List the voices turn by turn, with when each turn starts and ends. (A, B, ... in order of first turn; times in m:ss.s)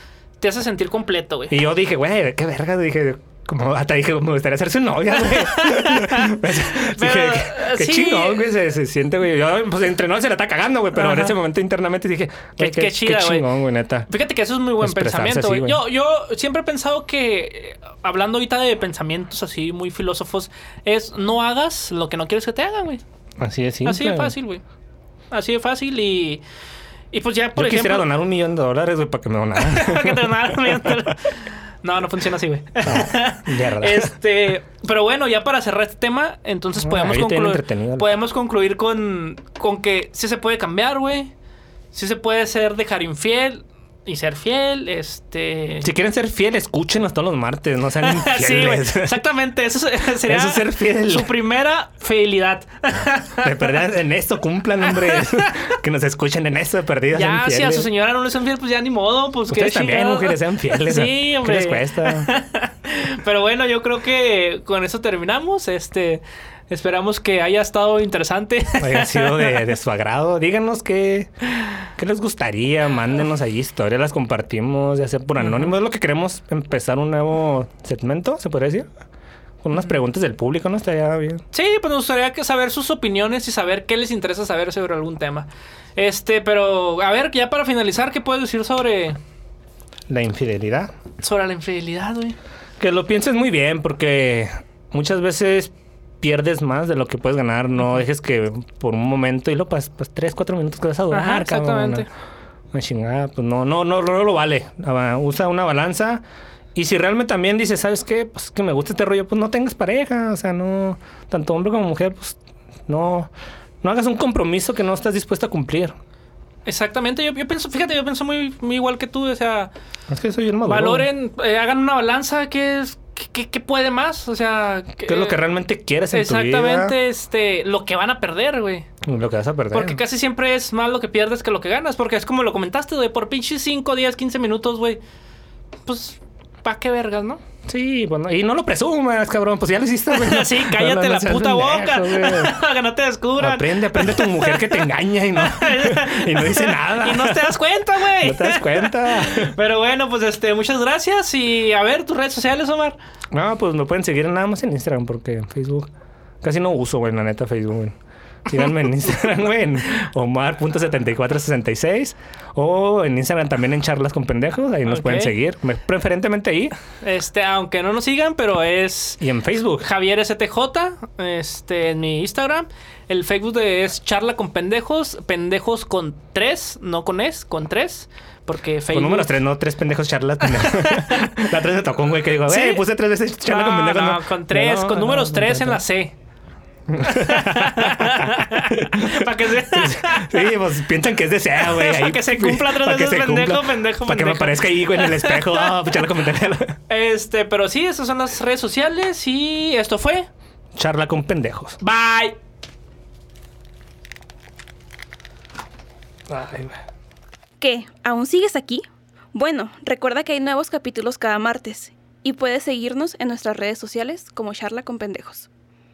0:00.4-0:01.6 A
0:01.5-0:14.1 B
0:05.2-0:08.5 A
0:10.9-0:11.3 A
0:12.6-0:13.5 A
0:14.1-0:23.0 A
0:14.8-0:15.8 B
0:23.4-0:24.3 B
0:23.8-0:24.6 A
0:25.3-0:26.4 A
0:27.1-0:28.1 A
0:27.5-0:31.0 B
0:29.6-0:41.3 A
0:32.8-0:34.1 B
0:36.8-0:38.1 B
0:41.9-0:45.9 A
0:45.8-0:49.2 B
0:48.0-0:53.8 A
0:50.2-0:51.4 B
0:53.4-0:57.9 B
0:54.8-0:55.7 A
0:57.1-1:09.6 A
0:59.5-1:02.3 B
1:08.8-1:11.3 B
1:12.0-1:18.9 B
1:19.6-1:21.4 B
1:21.5-1:29.2 A
1:30.1-1:30.9 B
1:31.2-1:32.4 A
1:32.8-1:42.0 B
1:41.1-1:42.1 A
1:42.7-1:46.2 B
1:46.7-1:53.3 B
1:53.8-1:55.9 B
1:56.6-1:59.7 A
2:00.1-2:01.1 B
2:00.7-2:05.4 A
2:05.0-2:06.9 B
2:06.1-2:08.9 A
2:09.0-2:10.0 B
2:09.7-2:15.0 A
2:15.9-2:17.4 A
2:17.6-2:22.5 B
2:20.1-2:33.0 A
2:23.4-2:27.6 B
2:28.1-2:29.5 B
2:33.3-2:35.9 B
2:36.4-2:38.0 B
2:38.5-2:46.7 B
2:44.9-2:45.3 A
2:47.0-2:49.2 A
2:49.2-2:49.9 B
2:49.8-2:59.3 A
2:58.9-3:05.8 B
3:00.5-3:01.4 A
3:02.4-3:02.8 A
3:03.4-3:06.1 A
3:06.9-3:16.8 B
3:07.0-3:10.5 A
3:11.6-3:15.7 A
3:16.9-3:20.3 A
3:20.7-3:21.8 B
3:21.8-3:22.4 A
3:26.3-3:26.8 B
3:27.6-3:35.5 C